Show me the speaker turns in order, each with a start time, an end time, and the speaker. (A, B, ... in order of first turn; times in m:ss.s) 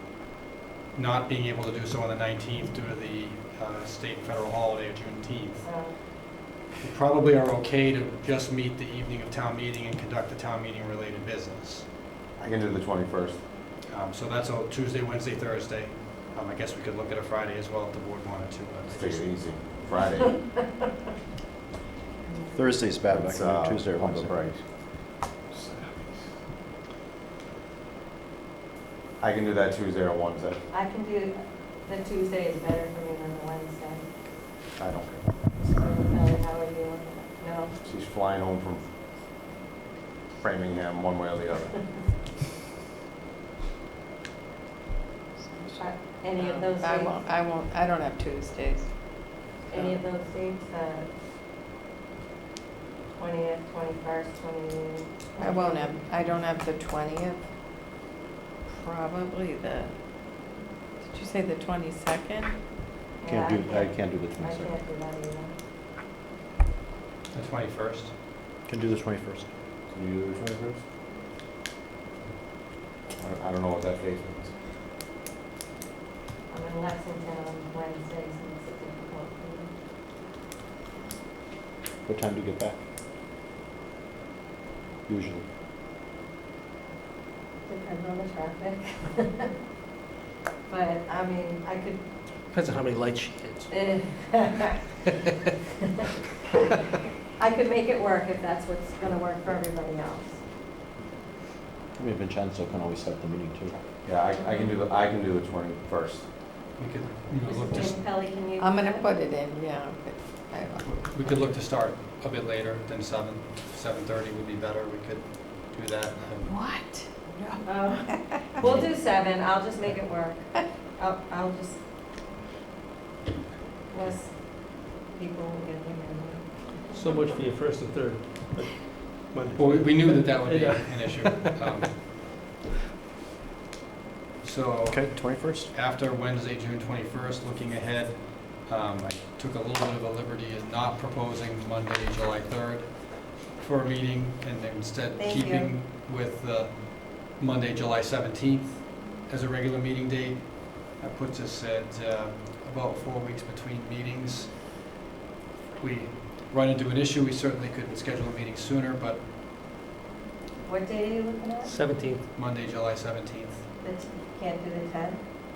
0:00.9-0:11.9 A
0:05.6-0:06.0 B
0:12.4-0:13.4 C
0:13.9-0:19.5 A
0:18.9-0:20.4 C
0:22.2-0:22.8 B
0:22.5-0:24.5 D
0:23.1-0:24.6 C
0:25.5-0:26.3 C
0:29.2-0:30.6 C
0:30.7-0:34.0 B
0:34.8-0:35.3 C
0:35.5-0:37.7 B
0:37.8-0:38.9 C
0:40.4-0:42.1 C
0:45.4-0:49.5 E
0:45.8-0:47.2 B
0:49.7-0:51.1 B
0:53.1-0:56.2 B
0:55.4-0:57.4 E
0:58.7-1:00.4 E
1:01.0-1:02.6 E
1:03.2-1:05.6 B
1:03.3-1:04.8 D
1:07.3-1:08.1 A
1:08.7-1:09.5 D
1:09.9-1:10.8 C
1:13.2-1:14.5 C
1:16.5-1:19.7 B
1:22.0-1:22.8 D
1:25.1-1:25.4 D
1:27.7-1:29.5 B
1:30.7-1:32.0 B
1:32.5-1:33.7 F
1:33.7-1:34.8 B
1:37.4-1:40.4 B
1:42.0-1:43.8 D
1:44.0-1:46.3 C
1:44.3-1:44.8 B
1:46.8-1:48.0 A
1:47.5-1:49.0 B
1:48.6-1:50.8 E
1:50.8-1:56.7 A
1:56.5-1:58.5 E
1:57.6-2:01.8 B
1:58.6-1:58.9 C
2:03.9-2:06.9 B
2:06.9-2:11.7 F
2:09.6-2:12.0 A
2:14.4-2:34.8 A
2:14.9-2:15.7 D
2:25.2-2:25.8 B
2:35.8-2:39.2 A
2:40.6-2:41.7 B
2:41.6-2:42.3 F
2:42.3-2:43.6 A
2:43.8-2:45.2 B